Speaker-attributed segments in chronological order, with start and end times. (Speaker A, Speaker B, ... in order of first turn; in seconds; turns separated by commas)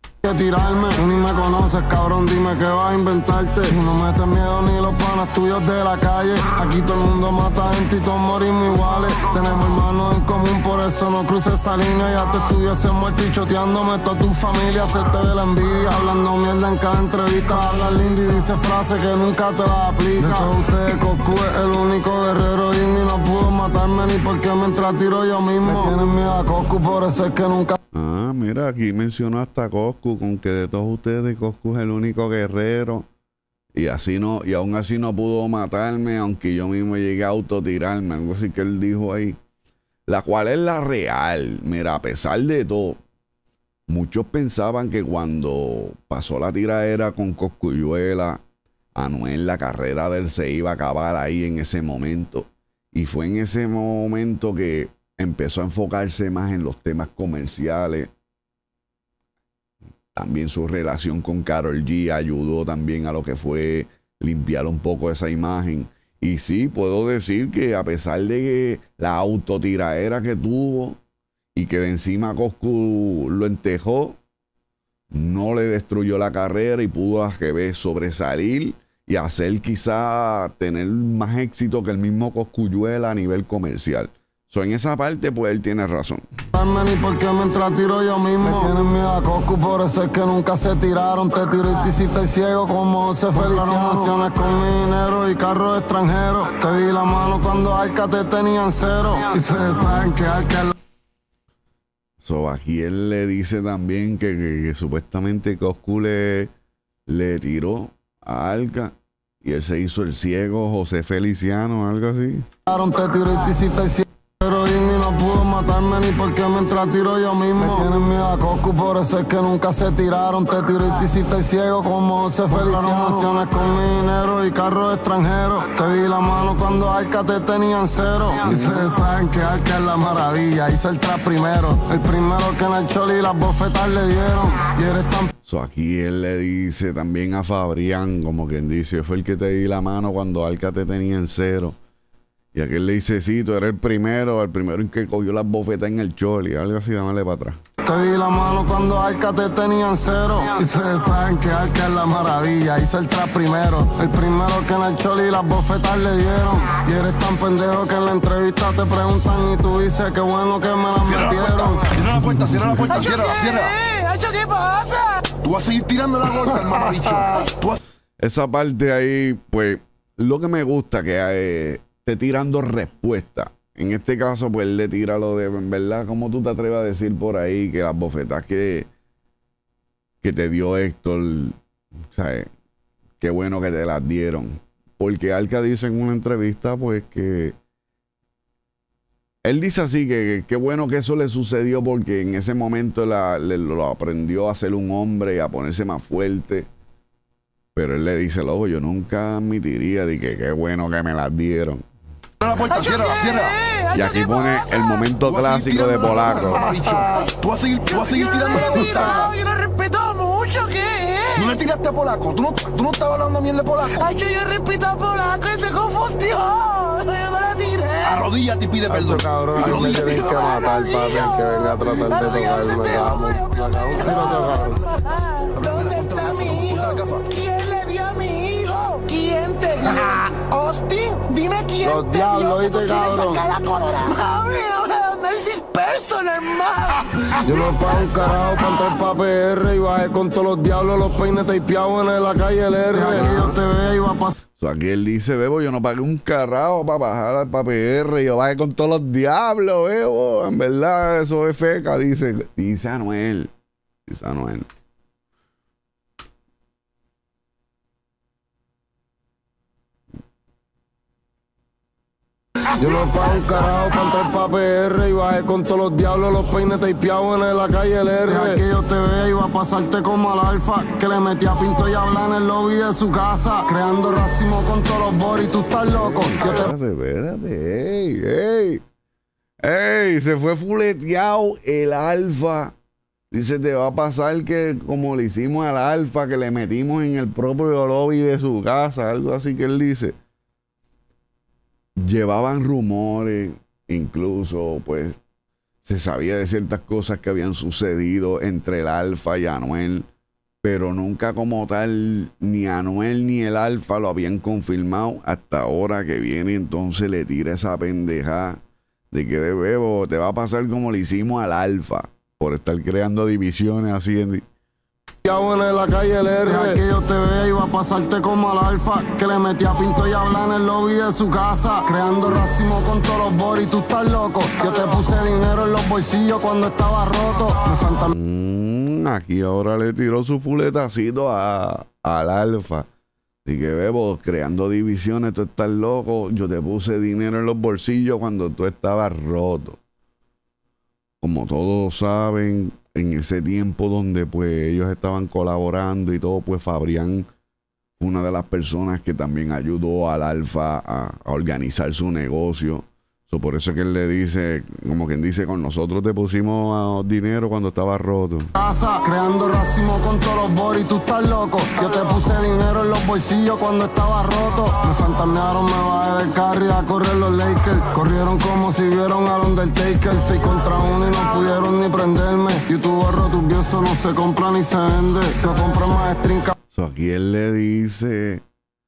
Speaker A: 0.2-27.8, Speaker B: 27.9-33.1, Speaker B: 33.8-39.4, Speaker B: 40.1-43.0, Speaker B: 43.9-48.4, Speaker B: 49.0-58.1, Speaker B: 60.1-71.0, Speaker B: 71.5-74.2, Speaker B: 75.1-86.3, Speaker A: 86.5-100.8, Speaker B: 102.2-106.5, Speaker B: 107.1-112.5, Speaker A: 112.7-135.3, Speaker B: 135.4-141.8, Speaker B: 142.5-147.6, Speaker A: 147.8-161.9, Speaker C: 161.1-163.8, Speaker D: 163.0-165.3, Speaker C: 165.4-167.8, Speaker B: 168.2-178.9, Speaker B: 180.2-181.6, Speaker B: 182.1-182.5, Speaker B: 183.2-187.6, Speaker B: 189.4-196.7, Speaker B: 197.8-201.8, Speaker C: 202.4-203.6, Speaker D: 202.8-205.0, Speaker B: 203.9-206.8, Speaker C: 205.2-209.3, Speaker D: 207.9-211.6, Speaker C: 211.3-214.1, Speaker D: 213.9-218.2, Speaker C: 218.0-220.4, Speaker A: 218.9-224.8, Speaker D: 219.6-237.8, Speaker C: 225.6-227.2, Speaker A: 231.8-233.4, Speaker A: 237.4-244.3, Speaker B: 243.1-243.5, Speaker B: 244.6-253.5, Speaker B: 254.1-254.7, Speaker A: 262.8-276.7, Speaker B: 275.9-278.8, Speaker B: 279.6-282.7, Speaker B: 283.3-290.2, Speaker B: 292.0-295.2, Speaker B: 295.9-300.1, Speaker B: 300.6-308.6, Speaker B: 309.1-314.4, Speaker A: 315.2-328.1, Speaker B: 328.1-332.9, Speaker B: 333.5-339.8, Speaker B: 341.2-347.3, Speaker B: 348.0-358.5, Speaker A: 358.6-376.5, Speaker B: 376.7-378.4